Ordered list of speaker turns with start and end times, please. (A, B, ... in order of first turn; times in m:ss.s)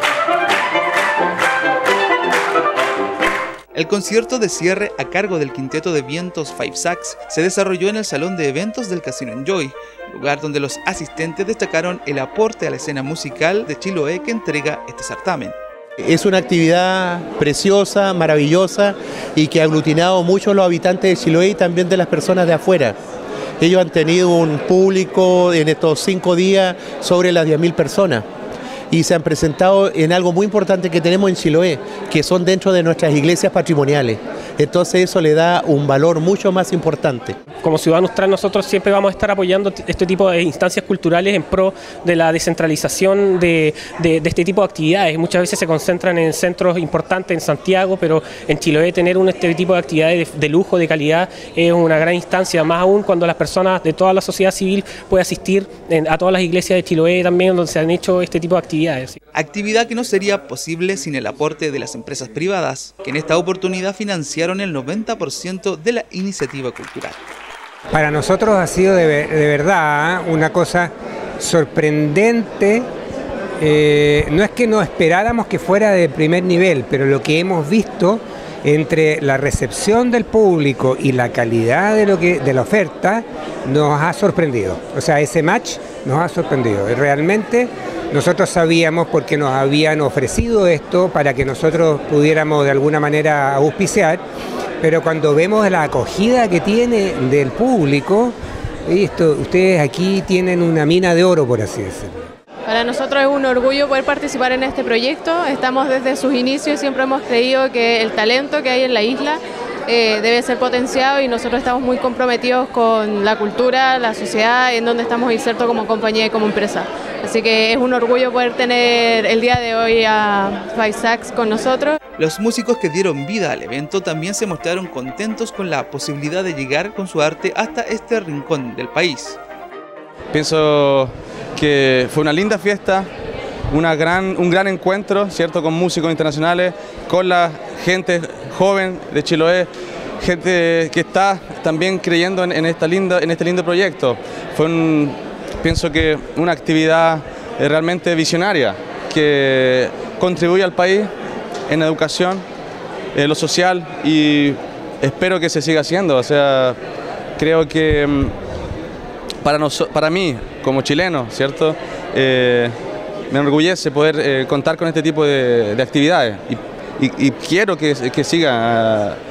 0:03.7-0:15.6 A
0:16.0-0:23.0 B
0:23.6-0:28.2 B
0:28.9-0:37.4 B
0:37.6-0:59.2 C
0:59.3-1:07.2 A
1:07.9-1:12.9 D
1:13.6-1:34.2 D
1:34.8-1:38.4 D
1:38.9-1:42.2 D
1:42.7-2:02.0 E
2:02.2-2:09.4 A
2:10.3-2:13.1 F
2:13.7-2:19.7 F
2:20.2-2:31.1 F
2:31.7-2:32.4 F
2:33.2-2:36.8 F
2:37.4-2:38.3 F
2:39.4-2:42.7 F
2:43.3-2:49.2 F